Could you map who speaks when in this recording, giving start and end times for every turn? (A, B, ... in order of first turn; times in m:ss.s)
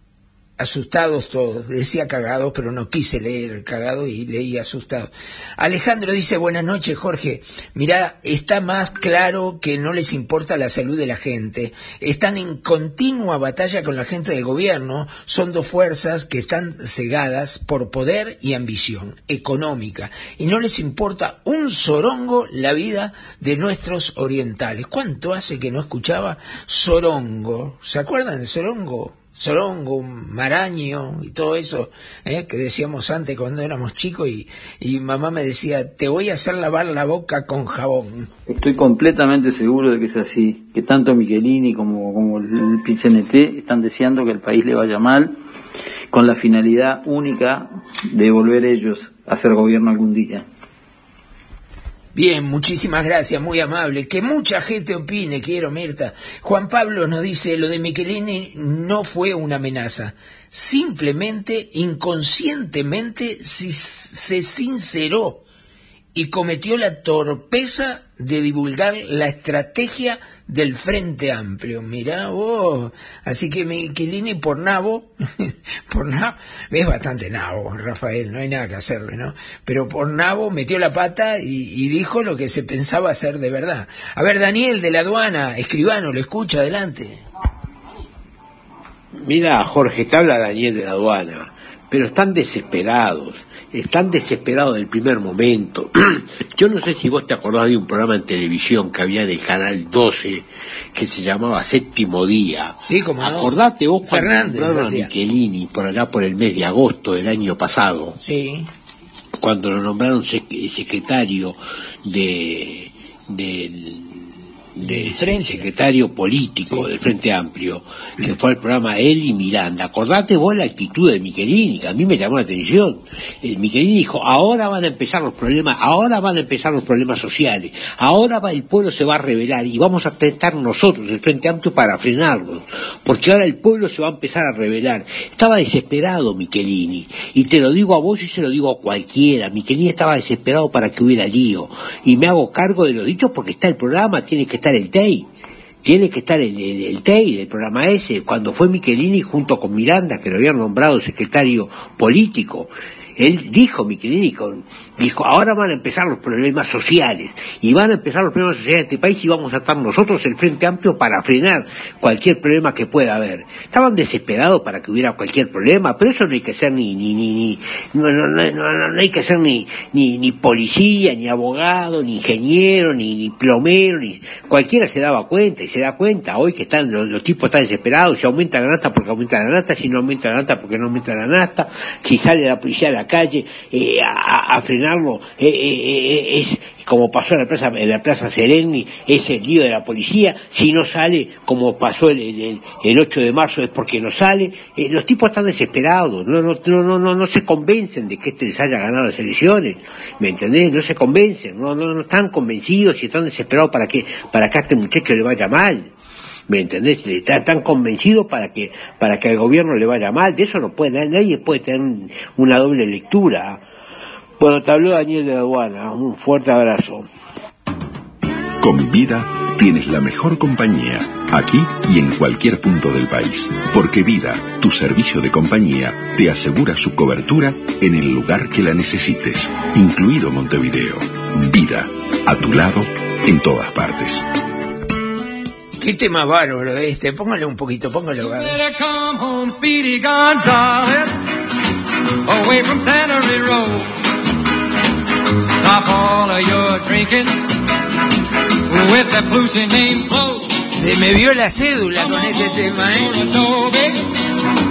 0:00.6-0:38.3 A
0:38.5-0:45.3 B
0:46.1-0:50.4 B
0:52.1-1:05.4 A
1:06.1-1:27.2 A
1:29.2-1:48.2 C
1:42.8-1:43.5 A
1:44.0-1:45.1 A
1:48.2-1:48.7 A
1:49.4-1:54.1 C
1:54.8-2:25.3 C
1:54.8-1:55.6 A
2:25.8-3:25.9 C
3:26.5-3:33.6 C
3:34.4-3:37.0 C
3:38.6-3:54.2 D
3:55.8-3:58.6 A
3:58.2-4:01.1 E
4:02.2-4:03.9 E
4:05.4-4:07.4 E
4:08.7-4:10.6 E
4:10.7-4:13.3 A
4:12.0-4:14.0 E